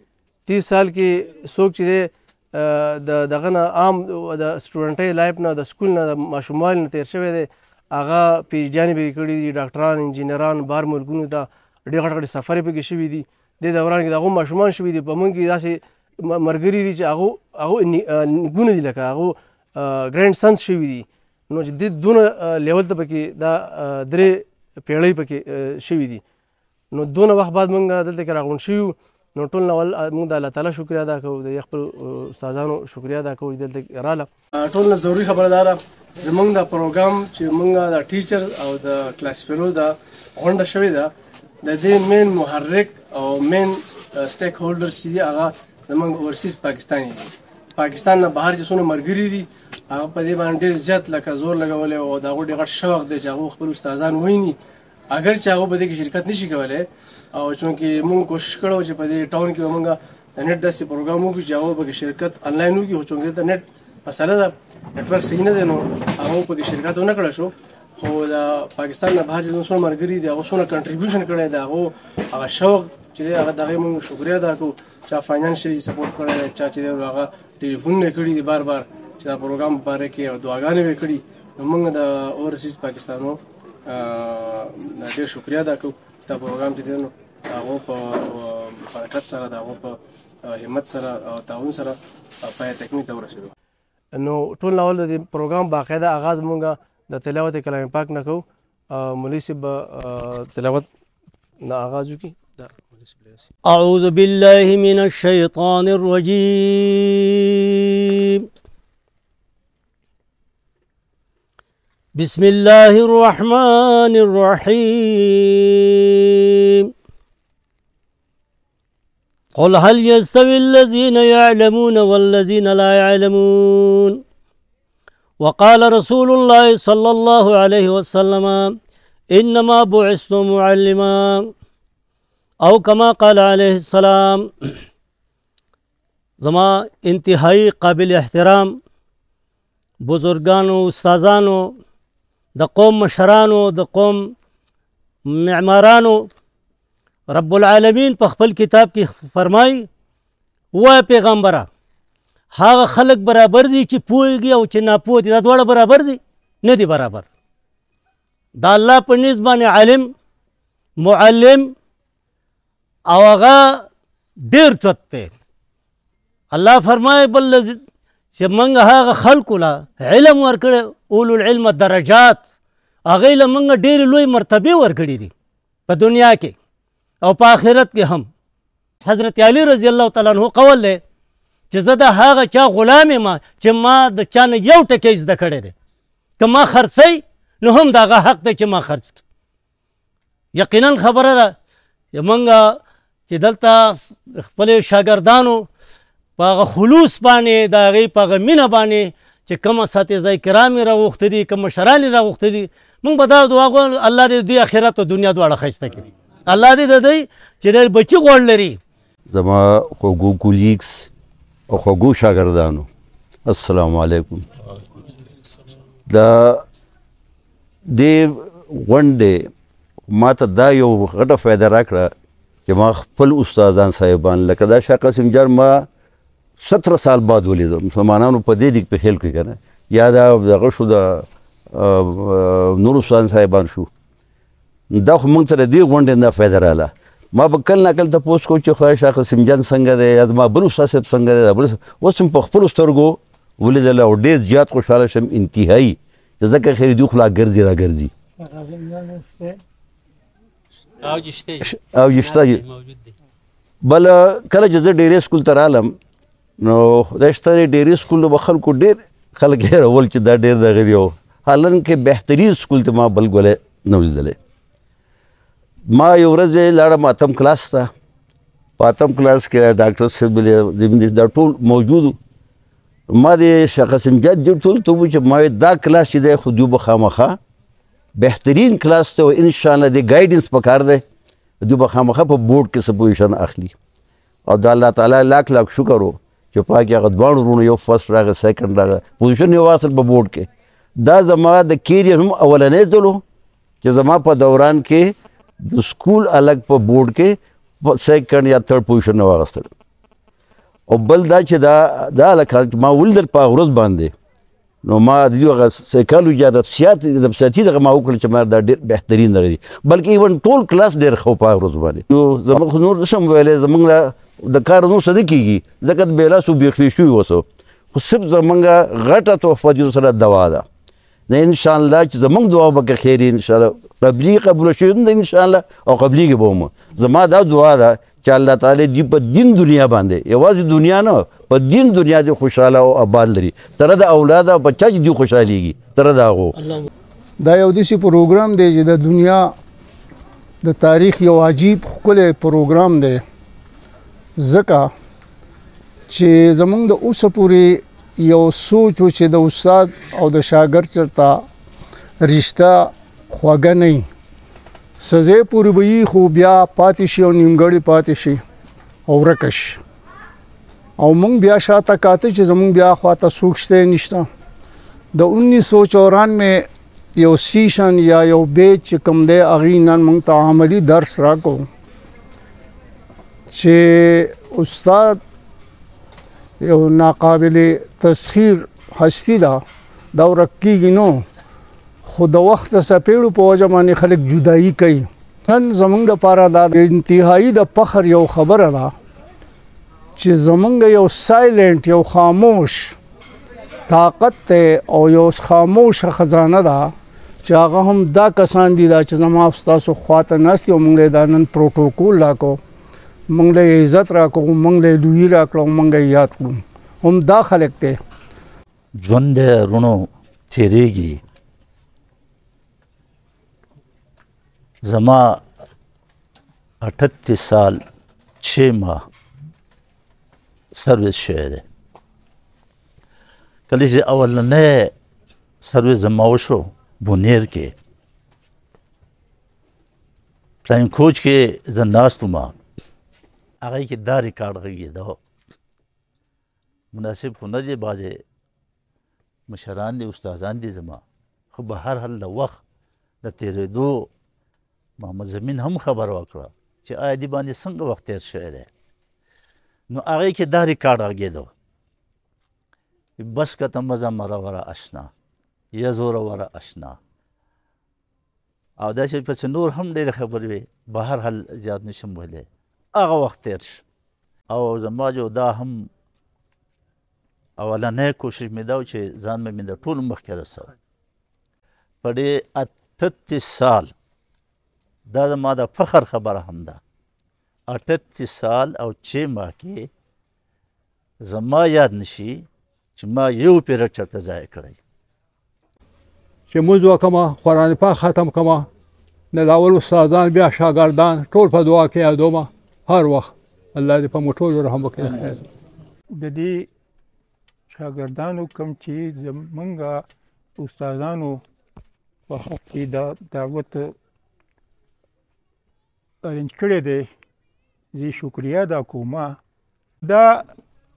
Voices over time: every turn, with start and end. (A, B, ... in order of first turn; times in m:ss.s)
0:00.5-0:26.2 A
0:26.9-0:41.1 A
0:41.6-0:54.6 A
0:55.1-1:33.5 A
1:34.1-1:40.9 A
1:41.6-1:43.5 A
1:43.7-1:48.5 B
1:52.2-1:56.9 B
1:59.6-2:04.2 B
2:05.4-2:08.7 B
2:09.3-2:11.5 B
2:12.6-2:14.7 B
2:16.4-2:18.7 B
2:20.0-2:21.7 B
2:22.6-2:24.2 B
2:25.3-2:26.3 B
2:27.3-2:29.9 B
2:30.7-2:31.7 B
2:32.5-2:37.2 B
2:38.6-2:40.1 B
2:41.0-2:41.7 B
2:43.1-2:43.8 B
2:44.4-2:45.3 B
2:46.5-2:47.8 B
2:48.4-2:52.4 B
2:53.1-2:55.3 B
2:55.9-2:56.5 B
2:57.2-2:58.3 B
2:59.0-3:01.0 B
3:01.7-3:05.7 B
3:06.4-3:09.2 B
3:10.6-3:11.5 B
3:12.1-3:15.7 B
3:16.4-3:28.8 B
3:29.4-3:31.0 C
3:31.7-3:32.9 C
3:33.5-3:34.4 C
3:36.1-3:36.6 C
3:37.9-3:39.4 C
3:40.1-3:42.1 C
3:42.7-3:45.8 C
3:46.7-3:51.0 C
3:51.9-3:52.2 C
3:52.8-3:53.9 C
3:55.0-4:08.1 C
3:57.6-3:59.2 D
4:00.8-4:02.8 D
4:04.6-4:05.8 D
4:06.5-4:07.2 D
4:12.1-4:12.5 C
4:12.4-4:12.6 D
4:13.9-4:15.9 C
4:14.3-4:14.7 D
4:17.2-4:24.4 C
4:25.9-4:27.9 C
4:28.8-4:32.2 C
4:29.5-4:30.0 D
4:33.2-4:37.4 C
4:33.2-4:34.9 D
4:38.2-4:41.0 C
4:38.4-4:38.8 D
4:41.6-4:43.7 C
4:44.5-4:50.5 C
4:51.0-4:53.2 C
4:51.1-4:51.6 D
4:52.8-4:53.1 D
4:53.8-4:55.1 C
4:55.7-4:57.3 C
4:55.8-4:56.5 D
4:58.0-4:59.4 C
4:59.1-4:59.7 D
5:00.9-5:04.1 C
5:02.0-5:02.8 D
5:04.9-5:17.4 C
5:06.6-5:08.4 D
5:12.2-5:12.8 D
5:17.9-5:20.6 C
5:18.8-5:19.2 D
5:21.3-5:36.5 C
5:29.0-5:29.4 D
5:31.1-5:32.0 D
5:37.4-5:39.5 E
5:40.6-5:43.2 E
5:44.4-5:44.9 E
5:46.1-5:51.4 E
5:52.2-5:54.1 E
5:55.0-5:58.4 E
5:59.1-5:59.8 E
6:01.0-6:04.3 E
6:05.1-6:11.7 E
6:13.5-6:15.2 E
6:16.6-6:19.6 E
6:20.2-6:21.2 E
6:22.1-6:28.9 E
6:30.2-6:33.0 E
6:33.9-6:36.9 E
6:37.4-6:42.6 E
6:43.3-6:48.0 E
6:49.0-6:51.2 D
6:54.9-6:55.4 D
6:56.8-6:57.8 D
6:58.4-6:59.0 D
7:00.8-7:01.6 D
7:03.7-7:04.9 D
7:05.6-7:07.7 D
7:10.7-7:12.6 D
7:13.6-7:15.2 D
7:16.9-7:18.2 D
7:19.5-7:22.6 D
7:23.2-7:24.1 D
7:25.0-7:28.7 D
7:29.9-7:31.5 D
7:33.2-7:35.1 D
7:35.8-7:37.0 D
7:38.8-7:43.8 D
7:44.5-7:45.9 D
7:47.6-7:50.7 D
7:52.0-7:53.9 D
7:55.1-7:56.8 D
7:57.7-7:59.9 D
8:01.3-8:04.8 D
8:06.5-8:08.7 F
8:09.3-8:15.4 F
8:16.1-8:16.7 G
8:17.7-8:20.1 G
8:20.6-8:21.4 G
8:22.3-8:23.9 G
8:26.2-8:27.1 G
8:27.9-8:29.4 G
8:30.0-8:30.5 G